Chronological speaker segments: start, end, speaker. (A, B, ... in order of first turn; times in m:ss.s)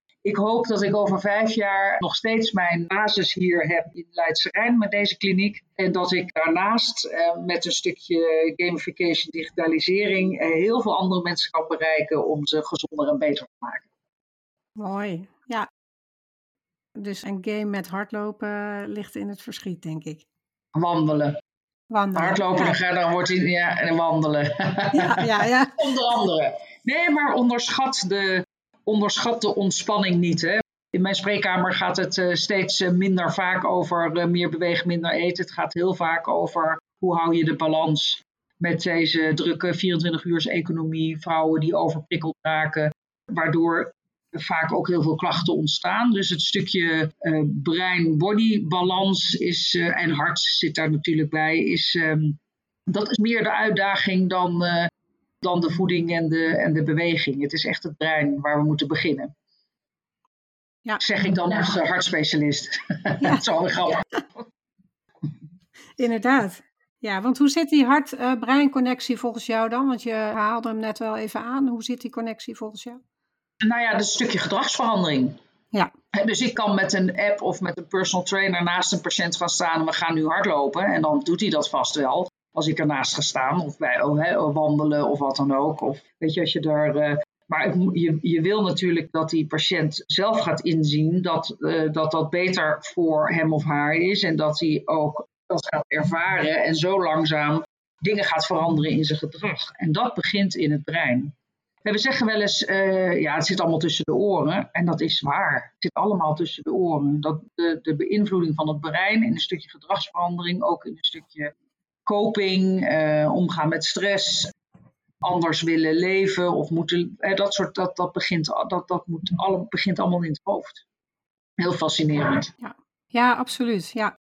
0:00.2-0:13.8 A
0:14.8-0:15.7 B
0:17.0-0:20.2 B
0:20.7-0:21.4 A
0:21.9-0:22.8 B
0:22.1-0:54.9 A
0:24.9-0:25.8 B
0:55.4-0:59.3 A
1:01.0-1:04.0 A
1:06.0-1:13.0 B
1:13.6-1:15.4 A
1:16.1-1:41.3 A
1:41.8-1:51.5 A
1:52.0-1:54.5 A
1:55.2-2:00.8 A
2:01.6-2:02.5 A
2:02.6-2:04.1 B